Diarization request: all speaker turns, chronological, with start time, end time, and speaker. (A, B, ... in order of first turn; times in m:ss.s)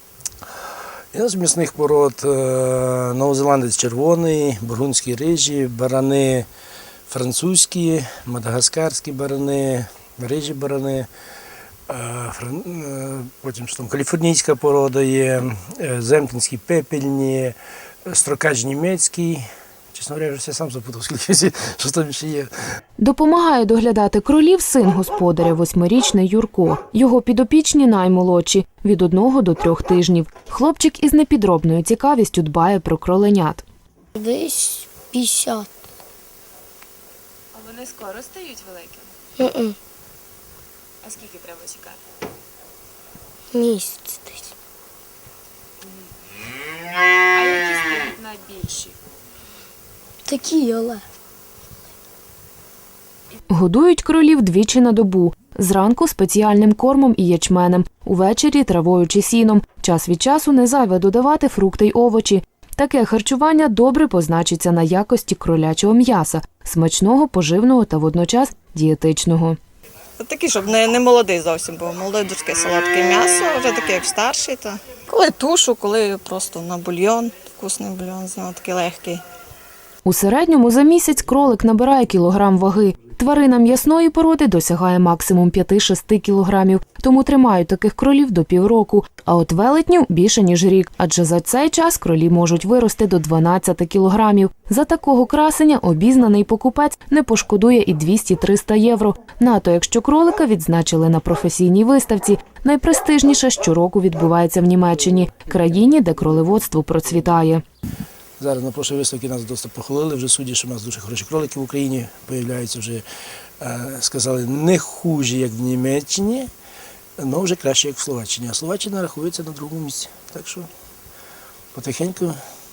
0:01.1-0:06.5 A
0:07.1-0:11.1 A
0:11.9-0:22.5 A
0:23.0-0:33.6 B
0:34.2-0:35.7 C
0:37.5-0:39.1 D
0:39.4-0:39.8 C
0:41.0-0:42.0 D
0:43.5-0:44.5 C
0:47.2-0:49.0 D
0:50.3-0:51.0 C
0:53.5-1:09.6 B
1:10.2-1:19.2 E
1:20.0-1:47.6 B
1:48.4-1:53.0 A
1:53.6-1:56.5 A
1:57.2-2:00.7 A
2:01.7-2:02.4 A